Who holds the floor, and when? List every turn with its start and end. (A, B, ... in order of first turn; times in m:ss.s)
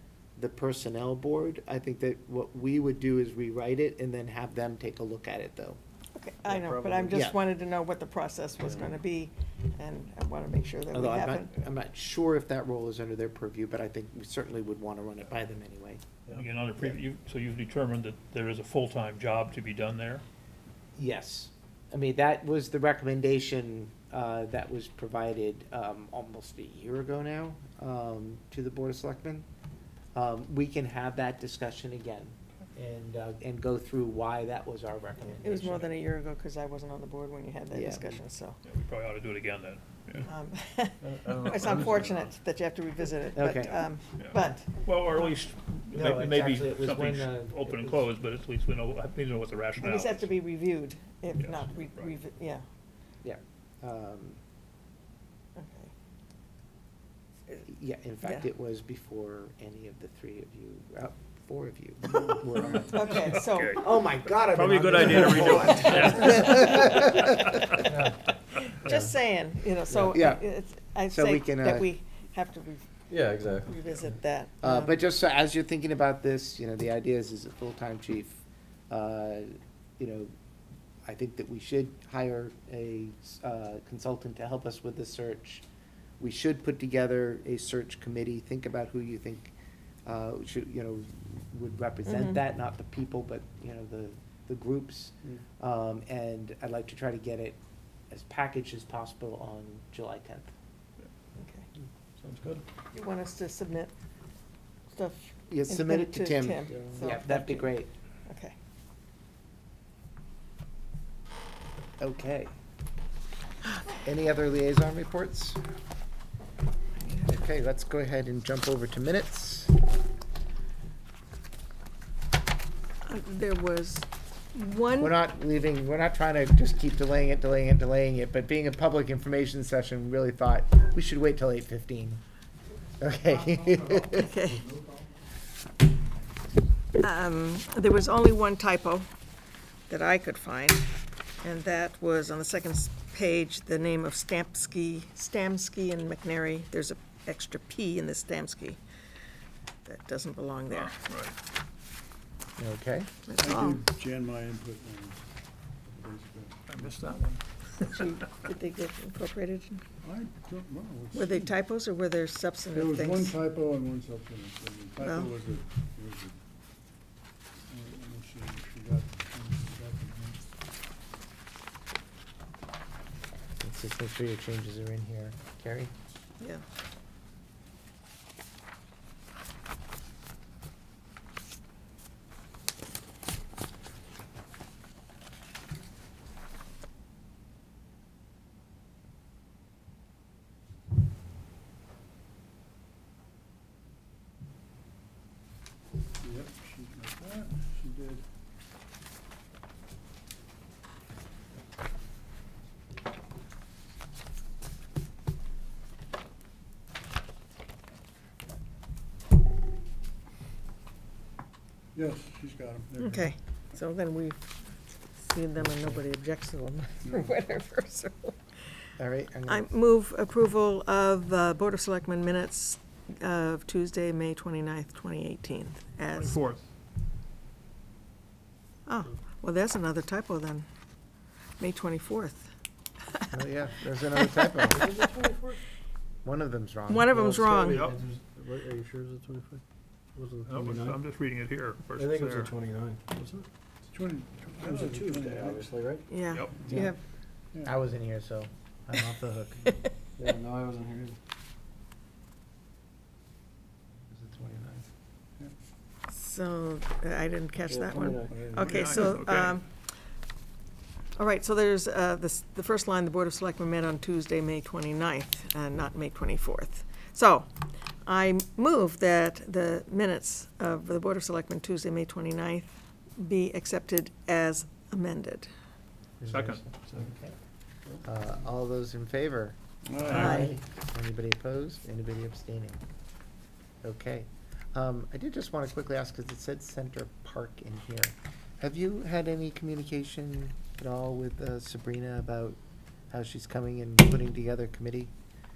0:00.4-0:05.8 A
0:06.2-0:11.5 B
0:06.4-0:07.1 C
0:07.1-0:07.4 A
0:10.9-0:16.0 A
0:16.3-0:20.2 D
0:21.0-0:29.5 A
0:30.1-0:35.9 A
0:35.4-0:38.6 B
0:37.7-0:38.2 A
0:38.6-0:40.3 D
0:40.3-0:44.7 B
0:41.0-0:42.1 C
0:41.2-0:42.2 D
0:43.4-0:43.8 A
0:44.2-0:50.3 D
0:45.9-0:48.1 A
0:49.8-0:52.6 B
0:51.4-0:52.2 D
0:53.2-0:54.4 A
0:55.6-0:55.9 B
0:57.7-1:07.8 A
1:02.1-1:02.9 E
1:02.9-1:03.8 B
1:03.1-1:07.7 D
1:05.3-1:07.0 B
1:07.8-1:08.2 C
1:08.6-1:12.9 B
1:08.8-1:09.1 C
1:09.9-1:10.2 C
1:10.1-1:10.4 A
1:11.1-1:11.9 A
1:13.1-1:13.8 C
1:13.6-1:14.9 B
1:14.6-1:20.3 A
1:21.0-1:25.6 A
1:26.2-1:29.5 A
1:30.0-1:37.6 A
1:38.1-1:40.5 A
1:41.4-1:41.6 B
1:42.2-1:42.6 C
1:42.9-1:43.9 B
1:44.9-1:48.6 B
1:45.5-1:47.9 A
1:52.0-1:52.5 A
1:53.9-1:55.6 A
1:57.0-1:57.3 B
1:57.2-1:59.7 A
2:03.0-2:05.2 B
2:05.0-2:12.2 A
2:13.0-2:14.3 A
2:14.2-2:14.7 B
2:17.0-2:19.1 B
2:19.9-2:20.9 B
2:21.4-2:28.8 B
2:29.9-2:31.0 B
2:30.7-2:31.3 D
2:32.6-2:33.1 A
2:33.3-2:33.8 B
2:33.4-2:35.2 E
2:35.8-2:37.2 E
2:36.7-2:38.0 D
2:37.8-2:39.8 B
2:40.0-2:41.5 E
2:41.1-2:43.3 B
2:42.7-2:46.4 E
2:45.0-2:45.3 B
2:47.7-2:50.4 E
2:53.6-2:55.9 A
3:16.2-3:18.2 E
3:32.0-3:33.3 E
3:33.0-3:38.9 B
3:37.0-3:37.3 E
3:39.0-3:39.7 A
3:39.5-3:46.4 B
3:46.1-3:46.6 D
3:48.9-3:50.7 B
3:51.6-3:52.5 B
3:53.0-3:53.3 B
3:53.3-3:54.9 A
3:54.7-3:55.6 C
3:56.2-3:57.4 A
3:56.9-3:57.9 B
3:57.1-3:59.6 C
3:57.7-3:58.0 D
4:00.2-4:01.0 C
4:00.5-4:02.5 D
4:02.0-4:03.5 C
4:03.9-4:05.7 E
4:04.6-4:06.1 C
4:06.1-4:07.0 B
4:06.3-4:06.6 D
4:07.6-4:09.6 A
4:10.2-4:11.2 C
4:14.1-4:14.8 A
4:16.1-4:19.7 B
4:17.7-4:18.6 C
4:18.3-4:19.1 E
4:18.6-4:19.6 D
4:21.2-4:27.5 B
4:28.0-4:35.5 B
4:36.2-4:37.4 A
4:36.3-4:36.6 D
4:38.0-4:42.8 A
4:39.8-4:40.5 E
4:40.1-4:40.5 B
4:43.8-4:52.6 A
4:53.1-4:55.1 A